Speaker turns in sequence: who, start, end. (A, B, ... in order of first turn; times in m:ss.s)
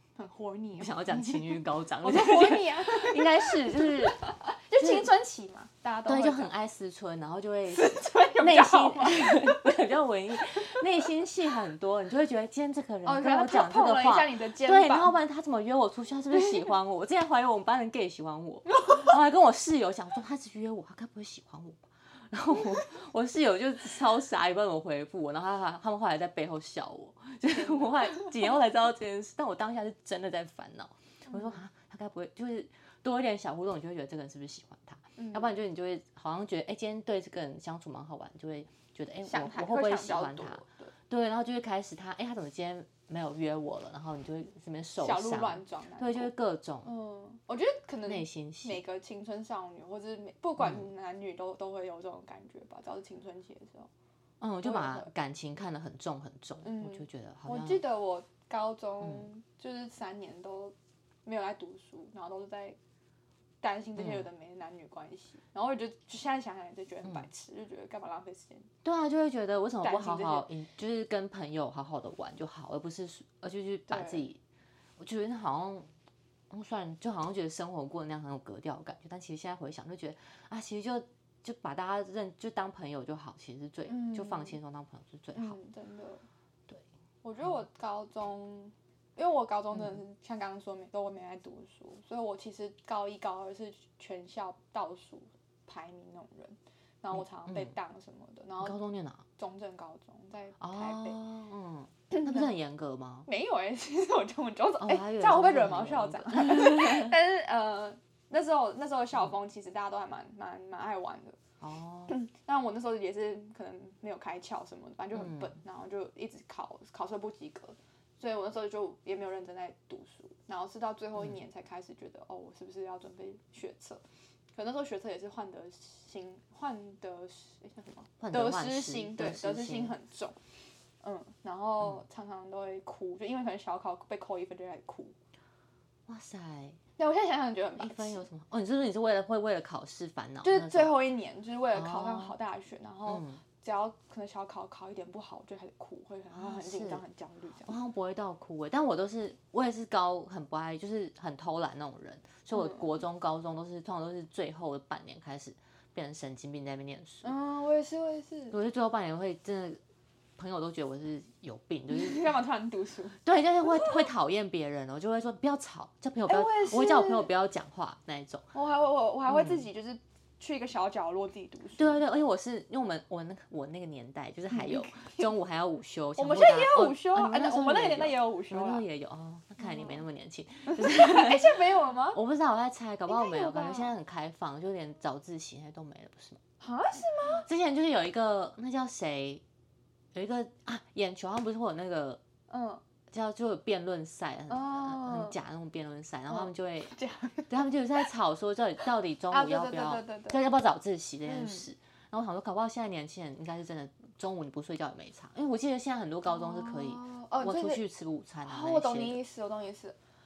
0:00.2-0:06.5 A
0:00.8-0:04.2 B
0:04.8-0:05.1 B
0:06.1-0:46.9 B
0:07.7-0:09.7 A
0:13.0-0:15.2 A
0:16.3-0:16.7 A
0:18.8-0:19.1 A
0:27.5-0:28.3 A
0:31.3-0:31.6 A
0:35.2-0:35.6 A
0:39.3-0:40.9 A
0:45.0-0:46.3 A
0:46.8-0:53.9 A
0:48.0-0:48.8 B
0:50.6-0:50.9 B
0:54.4-0:57.8 B
0:54.6-0:55.1 A
0:56.6-1:00.7 A
0:59.0-0:59.3 B
1:01.2-1:02.8 A
1:03.6-1:08.7 A
1:04.0-1:04.3 B
1:08.8-1:14.4 B
1:09.8-1:10.5 A
1:13.9-1:14.3 A
1:15.0-1:15.9 B
1:16.5-1:25.6 B
1:23.9-1:24.6 A
1:25.3-1:26.2 A
1:27.2-1:38.8 A
1:29.7-1:30.0 B
1:37.1-1:37.8 B
1:38.6-1:39.2 B
1:39.4-1:41.2 A
1:40.6-1:43.3 B
1:42.1-1:42.5 A
1:43.3-1:51.4 A
1:44.8-1:47.1 B
1:51.6-1:52.1 B
1:52.1-2:04.0 A
1:55.1-1:55.6 B
2:04.5-2:10.4 A
2:08.2-2:10.0 B
2:11.0-2:15.2 A
2:16.1-2:16.8 B
2:17.0-2:18.2 A
2:17.8-2:20.9 B
2:20.4-2:27.8 A
2:21.7-2:22.4 B
2:23.1-2:23.4 B
2:26.3-2:27.0 B
2:27.7-2:37.3 B
2:32.5-2:33.0 A
2:37.2-2:38.6 A
2:38.5-2:39.8 B
2:40.4-2:42.3 B
2:41.9-2:44.1 A
2:43.2-2:48.5 B
2:46.3-2:47.3 A
2:48.5-2:52.0 A
2:49.3-2:49.6 B
2:51.8-3:01.6 B
2:54.5-2:55.3 A
2:56.2-2:58.8 A
2:59.6-3:00.0 A
3:00.7-3:02.2 A
3:02.1-3:06.4 B
3:03.1-3:03.9 A
3:06.6-3:07.5 A
3:07.4-3:09.4 B
3:10.1-3:12.2 B
3:12.5-3:12.8 A
3:13.1-3:16.9 B
3:14.5-3:15.4 A
3:16.3-3:17.5 A
3:17.5-3:29.2 B
3:19.3-3:20.4 A
3:21.3-3:21.7 A
3:26.3-3:27.8 A
3:28.4-3:30.0 A